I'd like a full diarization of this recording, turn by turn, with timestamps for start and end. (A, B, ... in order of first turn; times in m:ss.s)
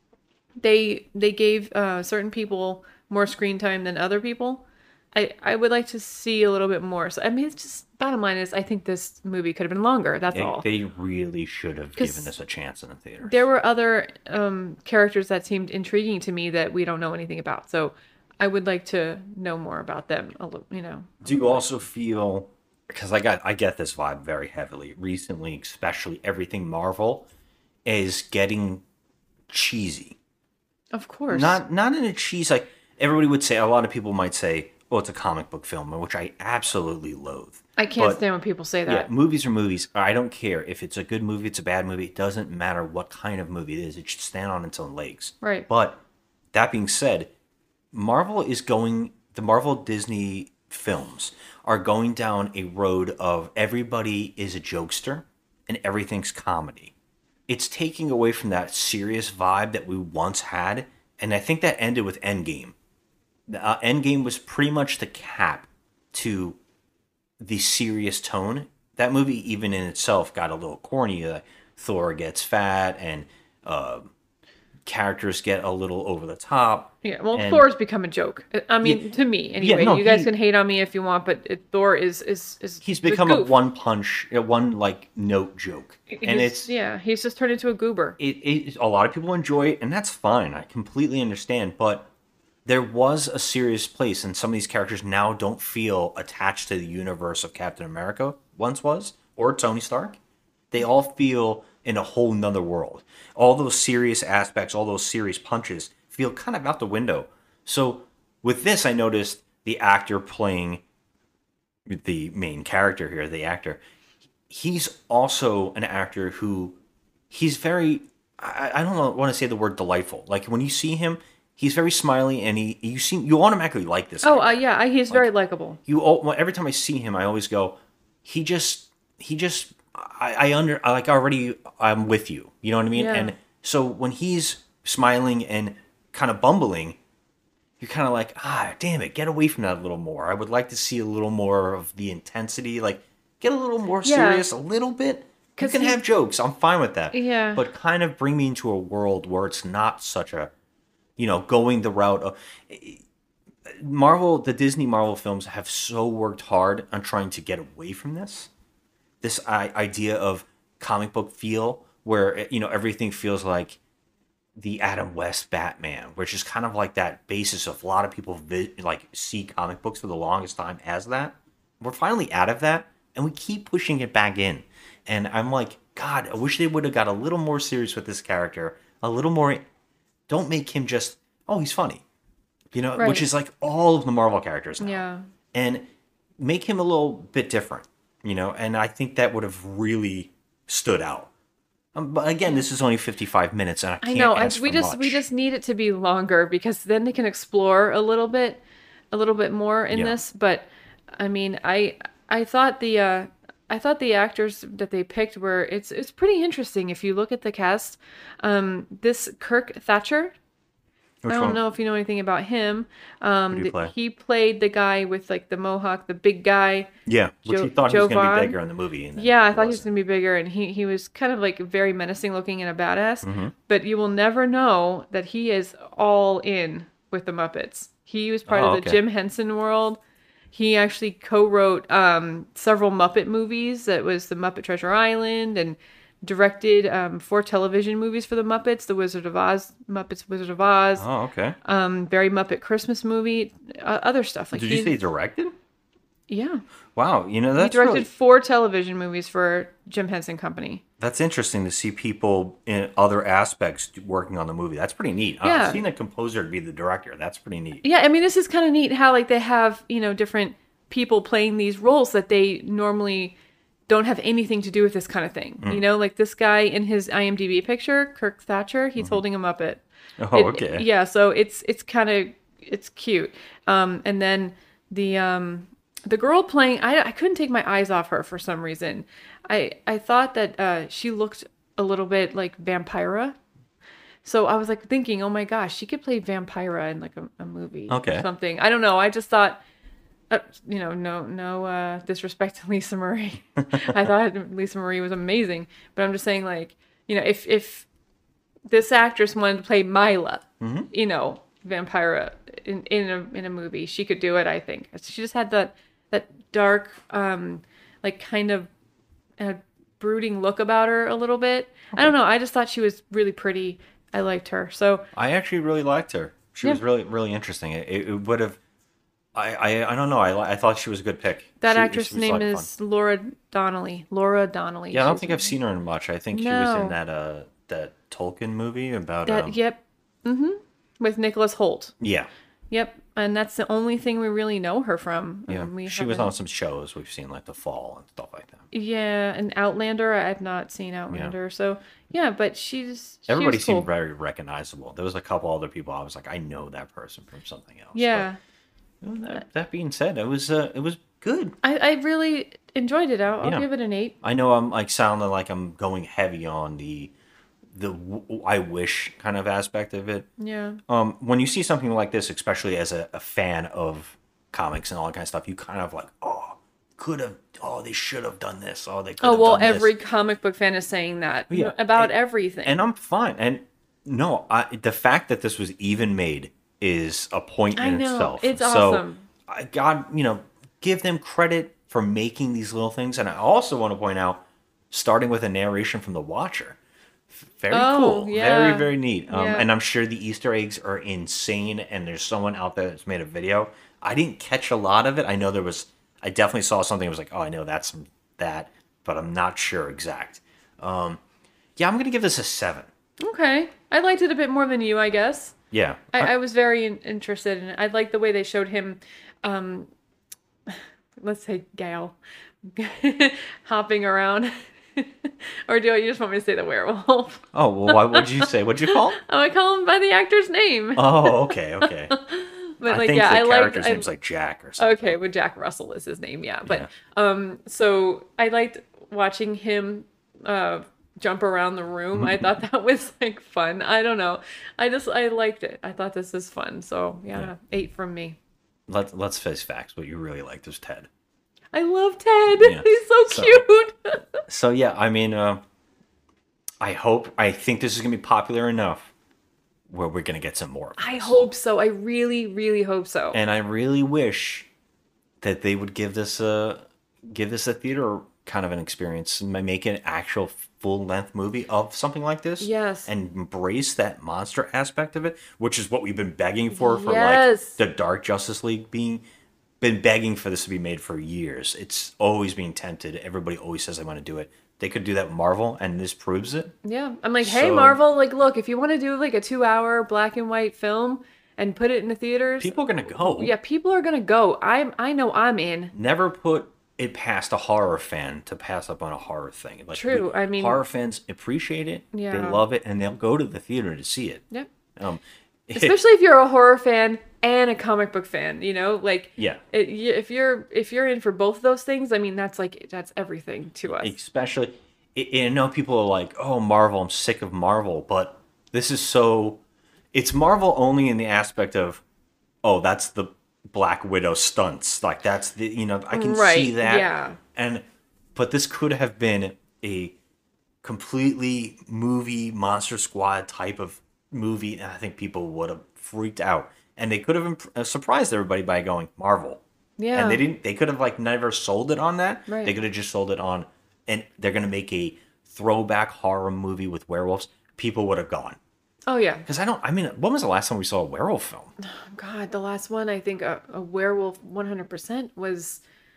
0:00.6-0:10.7 A
0:10.3-0:13.4 B
0:12.0-0:12.3 A
0:13.2-0:21.6 A
0:21.2-0:27.3 B
0:27.8-0:28.8 B
0:29.5-0:30.2 B
0:30.9-0:31.6 A
0:31.3-0:38.2 B
0:37.8-0:39.1 A
0:38.9-0:46.0 B
0:45.4-0:45.7 A
0:46.5-0:47.3 B
0:47.9-0:56.9 B
0:57.5-1:02.8 B
1:03.5-1:06.6 B
1:07.4-1:14.1 B
1:14.8-1:17.7 B
1:17.0-1:23.5 A
1:19.6-1:20.3 B
1:22.8-1:26.7 B
1:26.1-1:28.2 A
1:28.2-1:32.1 B
1:32.6-1:40.2 B
1:40.7-1:50.8 B
1:51.9-1:53.8 B
1:54.5-1:56.8 B
1:57.3-2:04.6 B
2:04.2-2:05.8 A
2:05.9-2:17.0 B
2:13.0-2:13.4 A
2:17.8-2:30.5 B
2:24.0-2:24.5 A
2:25.6-2:26.0 A
2:27.1-2:27.6 A
2:31.2-2:33.0 B
2:33.7-2:38.5 B
2:39.2-2:43.8 B
2:44.6-2:59.6 B
3:00.3-3:02.0 B
3:02.7-3:11.3 B
3:03.0-3:03.3 A
3:04.8-3:05.3 A
3:12.0-3:15.2 B
3:14.0-3:18.6 A
3:19.1-3:30.3 A
3:19.9-3:20.2 B
3:31.2-3:31.6 B
3:31.3-3:36.9 A
3:33.5-3:33.9 B
3:37.1-3:39.9 B
3:37.5-3:38.6 A
3:39.2-3:50.0 A
3:43.2-3:43.5 B
3:48.5-3:49.0 B
3:50.5-4:01.1 A
4:01.0-4:01.6 B
4:01.6-4:05.0 A
4:04.5-4:05.5 B
4:06.3-4:06.6 A
4:07.0-4:08.1 B
4:07.6-4:10.8 A
4:11.0-4:17.8 B
4:15.4-4:15.8 A
4:17.8-4:23.4 A
4:23.9-4:43.4 A
4:30.2-4:30.9 B
4:44.2-4:49.6 A
4:47.9-4:48.3 B
4:50.3-4:57.9 A
4:53.7-4:54.0 B
4:58.7-5:08.7 A
5:00.6-5:00.9 B
5:09.4-5:15.1 A
5:15.1-5:18.6 B
5:19.3-5:22.7 B
5:21.6-5:25.6 A
5:24.9-5:29.6 B
5:26.3-5:27.0 A
5:29.3-5:31.9 A
5:32.0-5:32.3 B
5:32.7-5:36.3 A
5:35.5-5:38.7 B
5:38.7-5:43.9 A
5:41.1-5:41.4 B
5:43.3-5:48.3 B
5:48.0-5:48.4 A
5:49.0-5:51.6 B
5:51.6-5:54.2 A
5:53.4-5:53.7 B
5:54.2-5:57.1 B
5:57.7-6:00.3 B
6:00.4-6:00.8 A
6:00.9-6:09.9 B
6:09.2-6:12.8 A
6:11.5-6:26.8 B
6:17.8-6:19.2 A
6:27.3-6:41.2 B
6:27.7-6:29.7 A
6:41.8-6:42.9 B
6:43.2-6:45.6 A
6:45.7-6:46.3 B
6:46.1-6:49.9 A
6:50.7-7:04.1 A
6:57.5-6:59.2 B
7:01.0-7:02.2 B
7:02.8-7:05.2 B
7:04.8-7:18.4 A
7:12.1-7:12.6 B
7:18.9-7:21.1 B
7:21.7-7:24.4 A
7:22.6-7:23.6 B
7:24.5-7:25.6 B
7:26.8-7:29.1 B
7:29.9-7:31.5 B
7:31.0-7:33.4 A
7:33.3-7:34.7 B
7:35.4-7:49.2 B
7:42.6-7:43.1 A
7:46.7-7:47.8 A
7:49.8-7:56.8 B
7:56.8-8:05.9 A
7:57.4-7:58.0 B
8:02.6-8:03.6 B
8:05.9-8:14.4 B
8:09.9-8:10.8 A
8:12.1-8:12.6 A
8:15.0-8:16.0 B
8:15.7-8:24.1 A
8:19.4-8:19.6 B
8:23.9-8:29.6 B
8:30.1-8:32.0 B
8:32.6-8:40.2 B
8:36.1-8:37.4 A
8:40.8-8:49.6 B
8:50.0-8:50.4 A
8:50.1-8:58.6 B
8:52.5-8:52.8 A
8:59.1-8:59.4 A
8:59.5-9:01.8 B
9:01.8-9:05.8 A